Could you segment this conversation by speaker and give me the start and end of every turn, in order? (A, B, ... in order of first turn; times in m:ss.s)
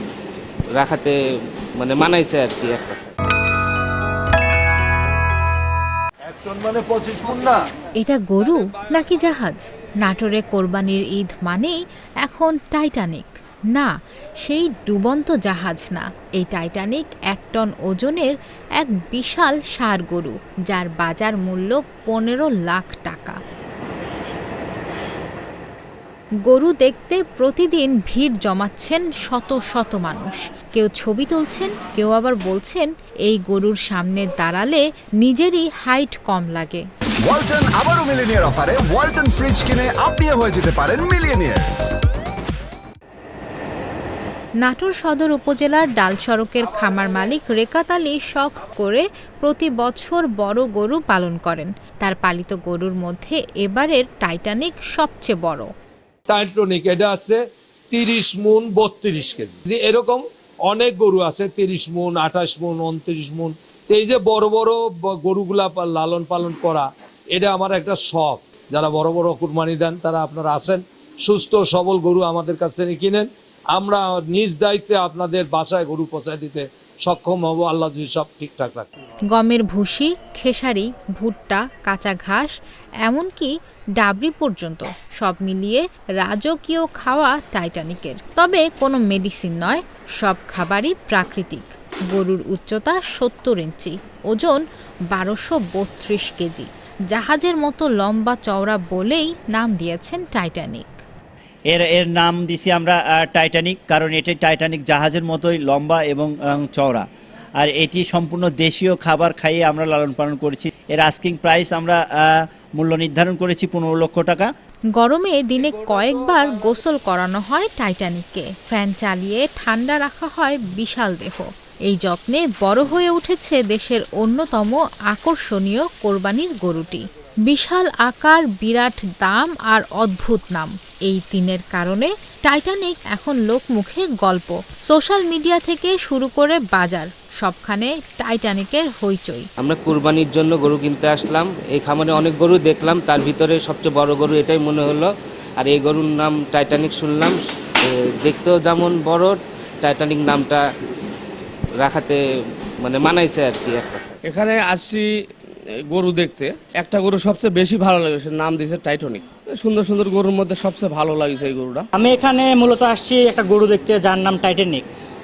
0:00.8-0:01.1 A
0:01.8-0:03.1 A
0:06.3-0:07.6 B
0:08.0-0:23.4 C
0:26.4-0:36.8 C
0:37.3-0:41.6 D
0:44.6-0:55.7 C
0:56.3-0:57.4 B
0:57.9-1:18.9 B
1:19.3-1:40.9 C
1:41.7-1:47.1 E
1:47.6-1:54.5 E
1:55.0-2:19.4 C
1:55.6-1:56.8 B
2:19.6-2:30.6 A
2:31.8-2:32.2 A
2:32.8-2:34.2 A
2:34.2-2:35.2 F
2:35.8-2:41.9 F
2:41.9-2:44.9 G